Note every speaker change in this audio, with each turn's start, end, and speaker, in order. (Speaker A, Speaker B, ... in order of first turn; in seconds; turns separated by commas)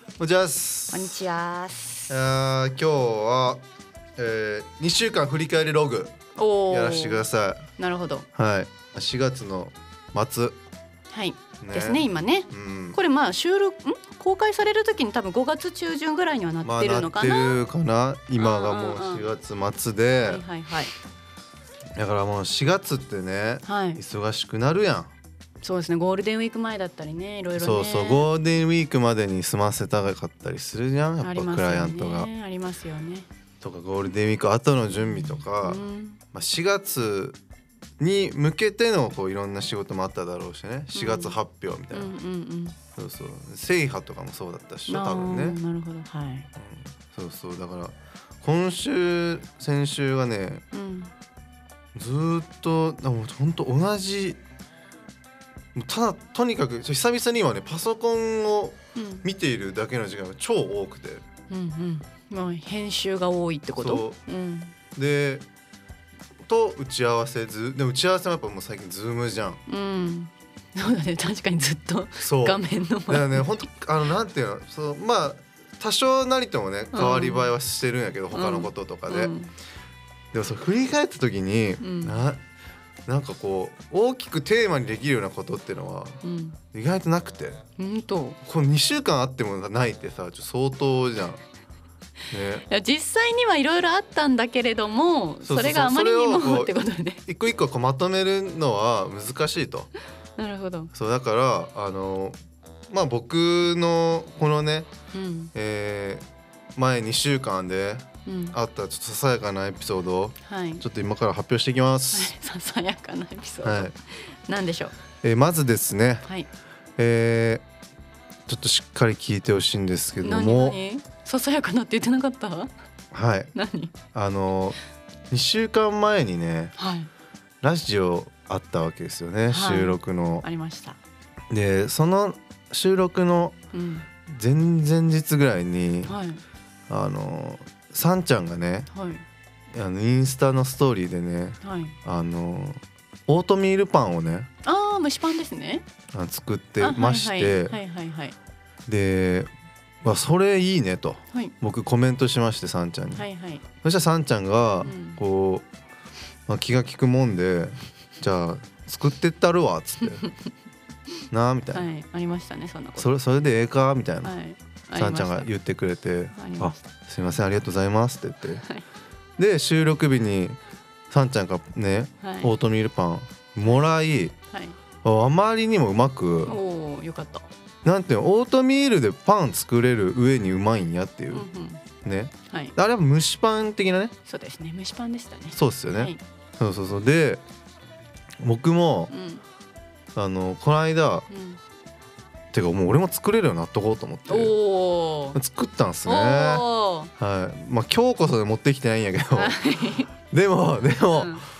Speaker A: 0.2-1.1, Speaker B: 0.9-2.1, Speaker A: 2.1-3.6, Speaker A: 4.2-6.2, Speaker B: 6.3-8.2, Speaker A: 6.7-7.6, Speaker A: 8.3-10.6, Speaker B: 11.1-17.6, Speaker A: 11.6-13.0, Speaker A: 16.6-20.4, Speaker B: 18.4-19.3, Speaker B: 20.2-20.9, Speaker A: 21.9-25.1, Speaker B: 23.6-24.0, Speaker B: 25.6-28.3, Speaker A: 27.5-32.3, Speaker B: 31.2-33.3, Speaker A: 33.6-37.4, Speaker B: 35.0-36.2, Speaker A: 38.0-42.1, Speaker B: 40.9-41.4, Speaker B: 41.9-42.8, Speaker A: 42.9-45.6, Speaker B: 44.9-46.5, Speaker A: 46.5-50.6, Speaker B: 50.7-51.1, Speaker A: 51.9-54.4, Speaker A: 55.7-61.2, Speaker B: 59.0-59.3, Speaker B: 61.5-64.7, Speaker A: 63.8-64.2, Speaker A: 64.9-65.4, Speaker A: 66.5-69.6, Speaker B: 69.7-73.5, Speaker A: 72.2-79.3, Speaker B: 76.9-77.5, Speaker B: 78.3-79.5, Speaker A: 80.3-82.4, Speaker B: 81.8-82.2, Speaker A: 83.1-86.2, Speaker B: 86.2-86.6, Speaker A: 86.7-87.6, Speaker B: 87.8-88.4, Speaker A: 88.4-91.4, Speaker A: 92.3-92.6, Speaker B: 92.7-97.2, Speaker A: 95.4-99.9, Speaker B: 100.4-100.9, Speaker A: 100.9-102.3, Speaker A: 102.9-104.9, Speaker B: 105.1-105.5, Speaker A: 105.5-106.2, Speaker A: 106.8-112.3, Speaker B: 108.2-108.6, Speaker B: 110.5-110.8, Speaker B: 112.1-114.9, Speaker A: 113.6-113.9, Speaker A: 115.2-116.2, Speaker A: 117.0-117.6, Speaker A: 118.5-120.8, Speaker B: 120.2-122.7, Speaker A: 123.1-123.5, Speaker B: 123.5-124.0, Speaker A: 124.1-124.8, Speaker A: 125.3-126.7, Speaker B: 126.8-127.1, Speaker A: 127.6-130.4, Speaker B: 129.5-131.0, Speaker A: 131.5-133.6, Speaker B: 133.7-134.1, Speaker A: 134.2-136.2, Speaker B: 136.1-136.4, Speaker A: 136.9-138.9, Speaker B: 138.9-139.2, Speaker A: 139.7-144.5, Speaker B: 141.6-141.9, Speaker B: 144.6-145.8, Speaker A: 146.1-147.8, Speaker B: 146.8-148.3, Speaker A: 148.9-149.5, Speaker A: 150.0-153.2, Speaker B: 153.1-153.6, Speaker A: 153.8-155.7, Speaker B: 154.8-155.2, Speaker A: 156.5-160.3, Speaker A: 161.3-161.9, Speaker B: 161.7-163.1, Speaker A: 163.0-164.3, Speaker B: 164.2-165.5, Speaker A: 164.9-168.6, Speaker B: 166.3-166.7, Speaker A: 169.4-170.6, Speaker A: 171.1-174.3, Speaker B: 172.2-172.5, Speaker A: 175.0-176.6, Speaker B: 176.5-177.4, Speaker A: 177.8-181.4, Speaker B: 181.3-181.8, Speaker A: 182.0-184.1, Speaker B: 182.5-182.7, Speaker B: 184.2-186.2, Speaker A: 185.5-187.4, Speaker A: 188.4-189.1, Speaker B: 189.1-189.4, Speaker A: 190.1-191.3, Speaker B: 191.3-191.6, Speaker A: 192.5-194.5, Speaker B: 194.3-195.4, Speaker A: 195.3-196.6, Speaker B: 196.1-197.1, Speaker A: 197.2-199.6, Speaker B: 199.3-200.1, Speaker A: 200.2-201.4, Speaker B: 201.1-201.4